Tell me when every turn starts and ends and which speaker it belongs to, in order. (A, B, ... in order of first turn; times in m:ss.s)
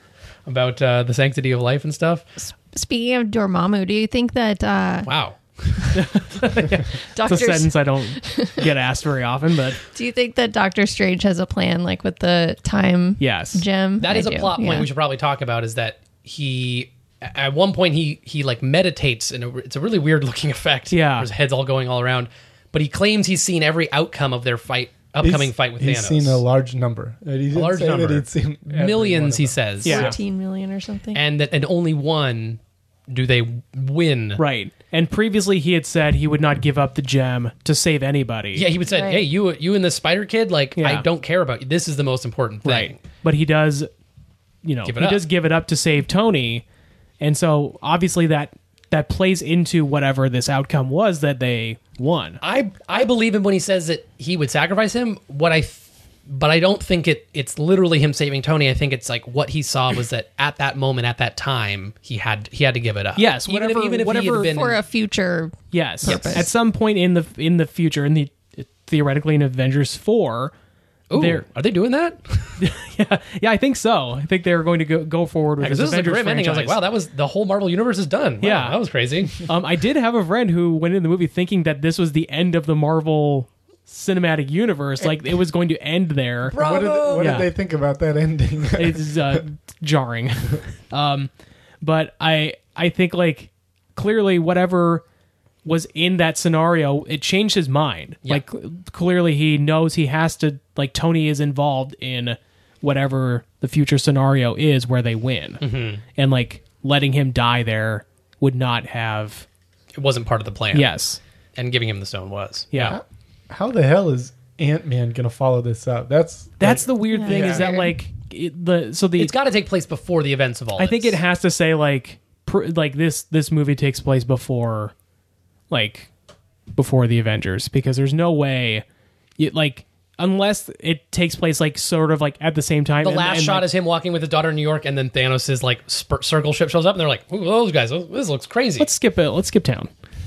0:00.4-0:02.2 A
0:02.4-0:05.1 B
0:05.0-0:06.0 A
0:05.9-0:09.8 C
0:07.1-0:08.7 B
0:09.9-0:14.9 B
0:13.2-0:13.6 C
0:14.0-0:26.4 A
0:20.9-0:21.3 C
0:25.2-0:30.0 D
0:27.5-0:30.1 A
0:29.8-0:30.2 C
0:29.8-0:31.2 B
0:31.1-0:34.4 A
0:34.4-0:38.6 C
0:38.5-0:43.0 A
0:38.8-0:39.2 B
0:40.8-0:41.0 C
0:42.6-0:43.9 C
0:44.6-0:46.6 C
0:44.8-0:45.2 A
0:47.2-0:52.4 C
0:52.4-1:04.8 A
1:03.2-1:04.5 C
1:04.5-1:06.5 B
1:05.7-1:10.5 C
1:06.1-1:06.4 A
1:11.1-1:12.6 A
1:11.1-1:11.4 C
1:12.6-1:16.8 C
1:15.6-1:19.4 A
1:18.4-1:18.8 C
1:19.3-1:26.6 C
1:26.5-1:27.4 A
1:26.5-1:29.4 D
1:27.2-1:27.5 C
1:28.7-1:31.3 C
1:31.8-1:35.0 C
1:35.6-1:45.6 C
1:45.6-1:46.0 A
1:46.1-1:49.4 C
1:50.0-1:50.9 A
1:50.7-1:51.2 C
1:51.6-1:53.0 A
1:52.7-1:53.0 C
1:52.9-1:57.7 D
1:56.6-1:59.3 C
1:57.1-1:57.9 B
1:59.2-2:01.2 A
2:00.8-2:04.9 C
2:05.7-2:06.1 C
2:06.7-2:08.8 C
2:09.4-2:13.7 C
2:13.0-2:18.9 A
2:18.8-2:19.9 C